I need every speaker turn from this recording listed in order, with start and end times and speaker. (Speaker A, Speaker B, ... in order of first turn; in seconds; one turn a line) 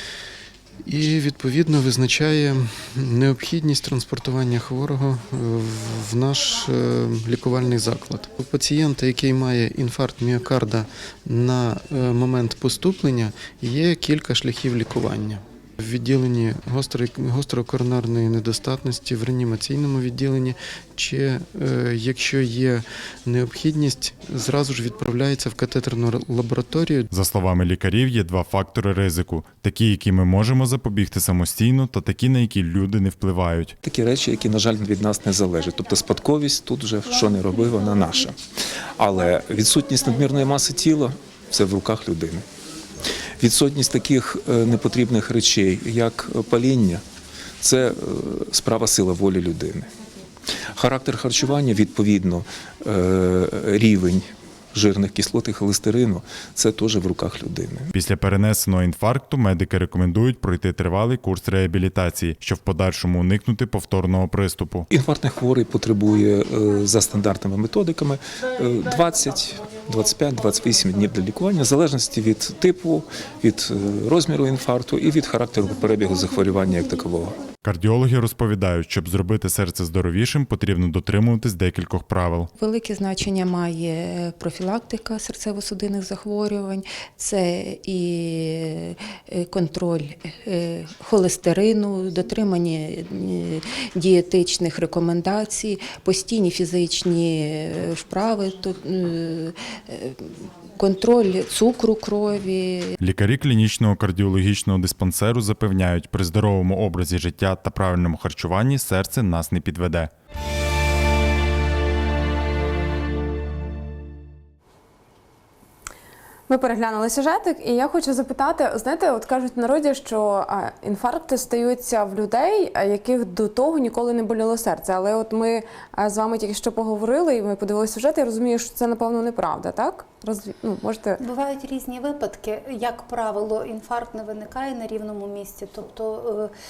Speaker A: 0.8-27.1
Speaker B: 27.1-33.8
Speaker C: 33.8-38.4
Speaker C: 39.0-42.4
Speaker C: 43.4-47.0
Speaker C: 47.6-49.9
Speaker C: 50.7-57.9
Speaker B: 57.9-64.9
Speaker C: 64.9-77.4
Speaker B: 77.6-82.5
Speaker D: 82.6-103.0
Speaker B: 103.0-110.1
Speaker E: 116.5-131.2
Speaker F: 131.2-136.5